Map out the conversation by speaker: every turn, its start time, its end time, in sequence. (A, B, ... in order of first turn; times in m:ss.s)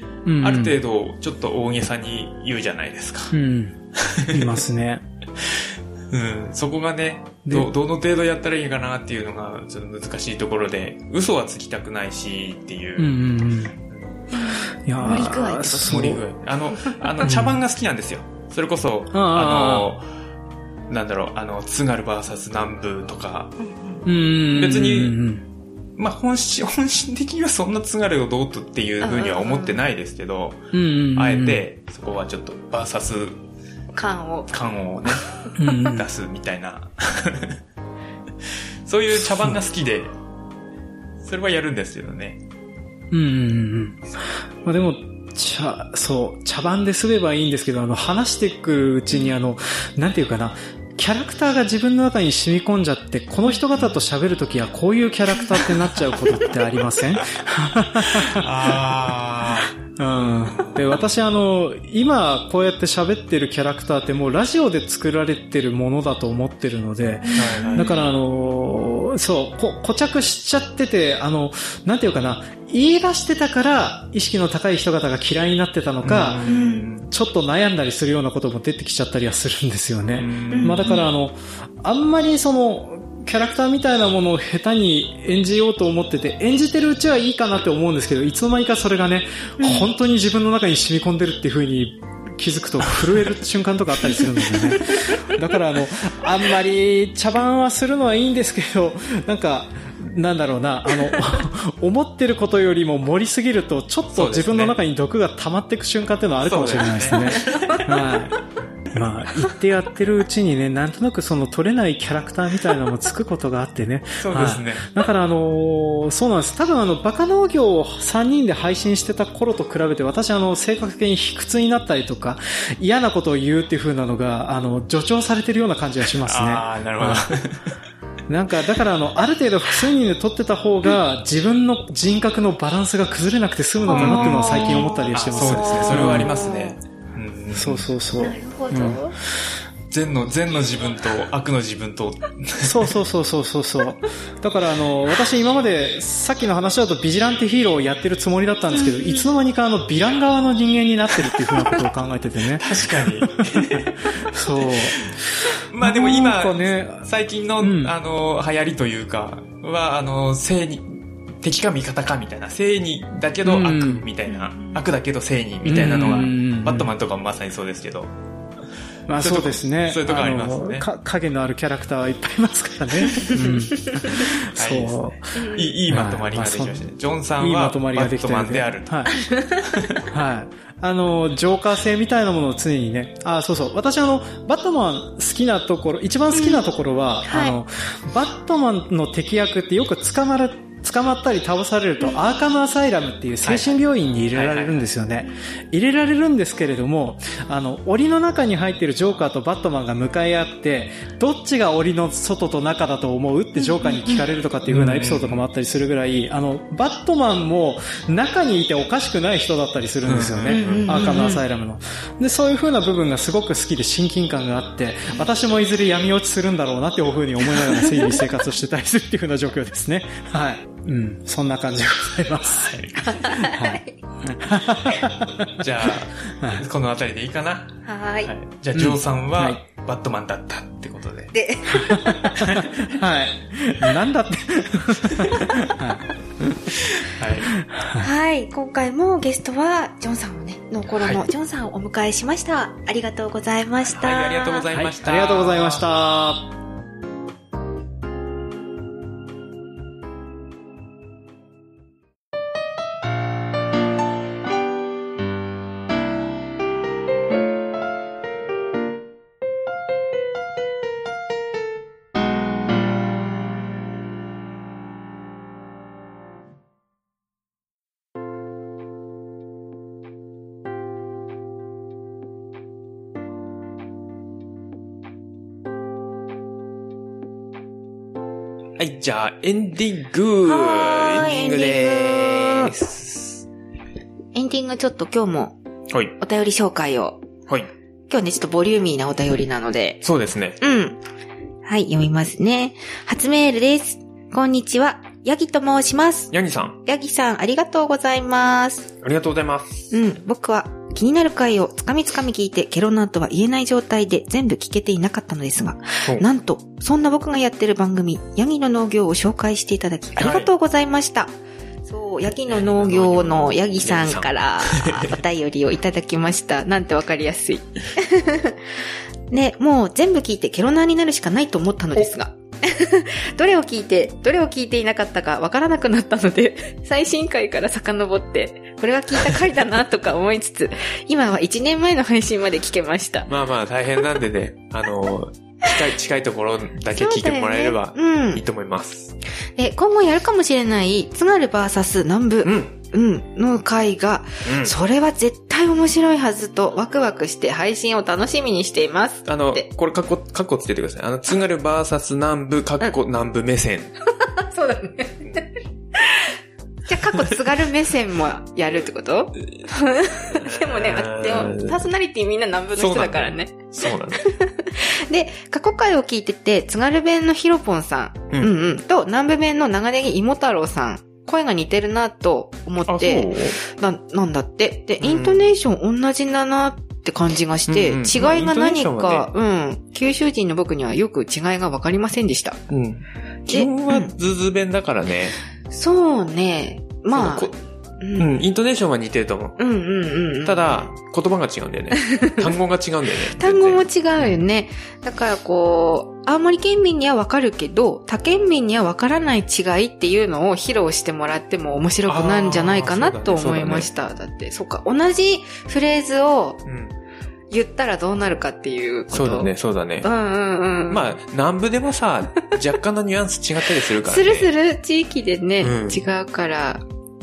0:00.2-0:00.8 A
0:00.4-0:03.4 B
0:03.3-0:05.0 A
0:04.0-0:04.6 B
0:05.5-0:13.2 B
0:07.5-0:07.7 A
0:13.0-0:13.7 A
0:13.9-0:14.3 B
0:14.3-0:16.2 C
0:14.8-0:16.2 A
0:15.8-0:20.1 B
0:17.2-0:17.6 A
0:19.1-0:19.9 A
0:20.9-0:23.5 B
0:23.6-0:24.0 C
0:24.1-0:25.4 A
0:24.5-0:25.2 B
0:26.0-0:33.4 B
0:29.0-0:29.8 C
0:30.7-0:31.6 A
0:33.9-0:34.5 C
0:34.5-0:37.6 B
0:35.6-0:36.1 A
0:38.8-0:40.1 B
0:39.2-0:39.6 A
0:41.2-0:42.4 B
0:43.1-0:44.1 A
0:44.6-0:59.0 A
0:58.0-0:59.8 B
1:00.0-1:16.5 A
1:07.2-1:08.1 C
1:07.4-1:07.9 B
1:16.0-1:17.1 B
1:16.5-1:16.9 C
1:17.0-1:48.4 A
1:20.2-1:20.9 B
1:20.5-1:21.1 C
1:29.6-1:29.9 C
1:44.1-1:44.8 B
1:46.4-1:47.8 B
1:47.4-1:47.8 C
1:48.9-2:07.3 A
1:54.2-1:54.9 B
2:06.2-2:07.8 B
2:08.3-2:16.3 A
2:13.9-2:16.8 C
2:13.9-2:17.9 B
2:17.5-2:19.0 A
2:18.2-2:19.2 C
2:19.9-2:22.9 B
2:22.6-2:35.2 A
2:28.7-2:29.3 C
2:32.6-2:48.1 B
2:35.8-2:37.1 A
2:37.6-2:37.9 A
2:43.4-2:44.1 A
2:44.3-2:44.8 C
2:45.6-2:46.9 A
2:49.1-2:59.1 A
2:49.2-2:50.9 B
2:53.1-2:53.6 C
2:54.2-3:00.1 B
2:55.4-2:55.8 C
2:59.2-2:59.6 C
3:00.0-3:42.8 A
3:06.3-3:06.7 C
3:07.3-3:07.6 C
3:13.4-3:13.8 B
3:14.3-3:14.8 B
3:23.6-3:24.2 C
3:24.7-3:25.4 B
3:30.1-3:31.0 B
3:30.5-3:31.4 C
3:42.6-3:43.2 B
3:43.0-3:43.9 C
3:43.4-3:46.6 A
3:45.6-3:51.3 B
3:47.8-3:48.3 C
3:48.7-3:49.6 A
3:51.3-3:52.4 C
3:51.8-3:56.0 A
3:52.3-3:53.0 B
3:55.2-3:55.5 B
3:56.8-3:57.5 B
3:57.6-3:58.1 A
3:58.0-4:04.7 C
4:03.9-4:05.9 B
4:04.7-4:06.5 A
4:38.8-4:43.4 B
4:40.4-4:42.7 C
4:44.3-4:45.6 C
4:46.2-4:47.2 C
4:48.1-4:50.0 C
4:50.0-4:50.6 B
4:50.6-4:51.0 C
4:51.6-4:56.3 C
4:56.3-4:56.8 B
4:56.8-4:58.9 C
4:59.0-4:59.9 B
4:59.9-5:11.3 C
5:10.2-5:10.5 B
5:11.8-5:18.6 C
5:12.5-5:15.2 B
5:19.3-5:33.3 C
5:33.3-5:39.2 B
5:36.9-5:38.4 C
5:39.6-5:49.7 C
5:42.4-5:42.7 B
5:44.4-5:44.8 B
5:49.3-5:53.9 B
5:54.1-5:55.4 C
5:56.0-5:56.3 C
5:56.9-6:22.6 C
6:00.3-6:01.8 B
6:02.8-6:04.3 B
6:12.9-6:13.6 B
6:15.0-6:15.5 B
6:17.7-6:19.3 B
6:22.7-6:25.4 B
6:23.5-6:24.1 C
6:25.7-6:28.3 C
6:27.1-6:27.5 B
6:28.2-6:29.6 B
6:29.6-6:30.9 C
6:30.4-6:34.4 B
6:32.0-6:32.5 C
6:33.4-6:46.6 C
6:42.1-6:43.9 B
6:46.7-6:47.0 B
6:47.5-6:49.5 C
6:49.1-6:50.1 B
6:50.0-6:51.1 C
6:50.9-6:54.5 B
6:53.9-6:56.8 C
6:55.6-6:56.0 B